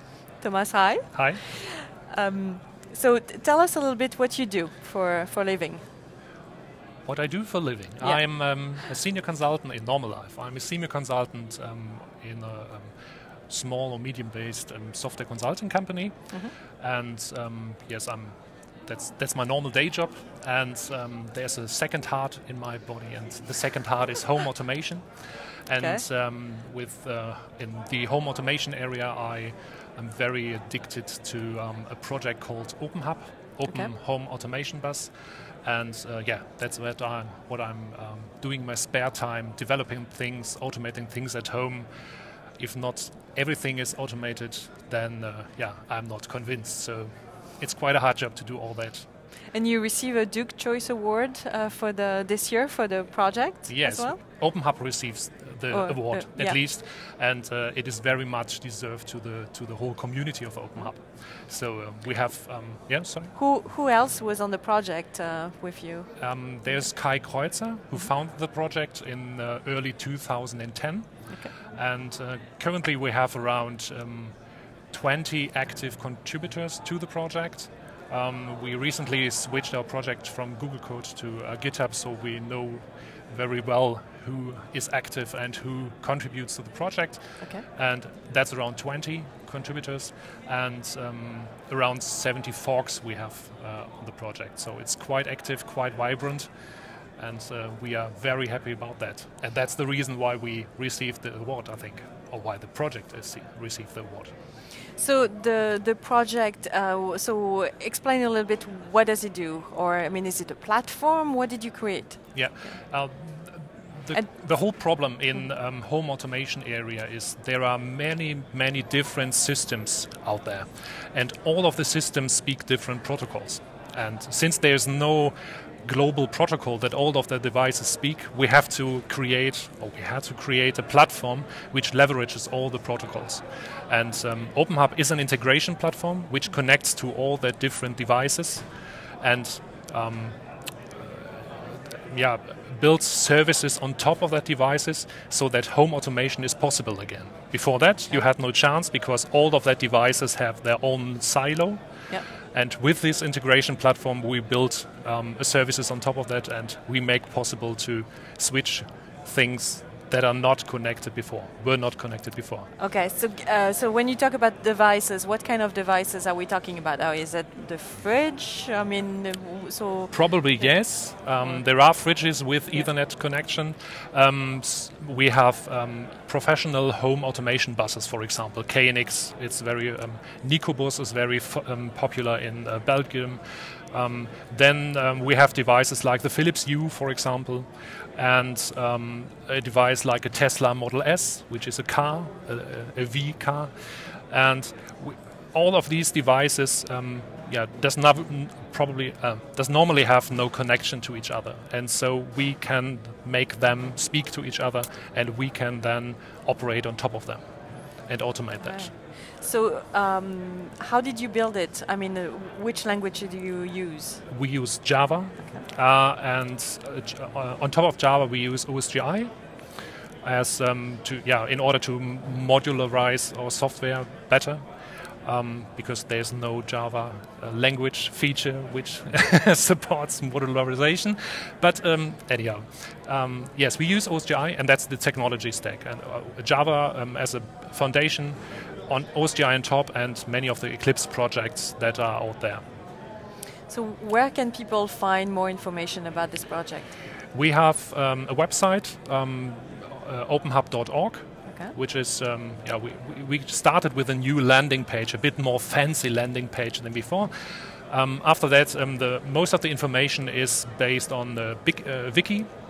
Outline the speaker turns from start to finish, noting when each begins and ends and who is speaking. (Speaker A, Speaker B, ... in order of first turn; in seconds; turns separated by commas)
Speaker A: 0.3-5.8, Speaker B: 1.1-1.4, Speaker B: 7.0-12.9, Speaker B: 13.5-35.1, Speaker A: 25.8-26.0, Speaker A: 33.6-33.9, Speaker B: 35.6-41.9, Speaker B: 42.6-49.1, Speaker A: 49.5-54.2, Speaker B: 53.7-63.3, Speaker A: 55.7-56.6, Speaker A: 63.3-66.1, Speaker B: 66.2-74.3, Speaker B: 74.9-96.5, Speaker A: 87.4-87.6, Speaker B: 97.2-104.3, Speaker A: 105.0-112.8, Speaker B: 112.3-138.6, Speaker A: 114.1-114.8, Speaker B: 139.2-140.3, Speaker B: 140.9-151.8, Speaker B: 152.3-162.7, Speaker A: 162.8-171.6, Speaker B: 170.1-207.4, Speaker B: 207.9-208.9, Speaker A: 208.6-214.2, Speaker B: 214.3-219.3, Speaker A: 215.4-215.7, Speaker B: 220.2-224.6, Speaker B: 225.2-242.6, Speaker A: 243.7-246.9, Speaker B: 247.3-262.5, Speaker A: 251.5-251.7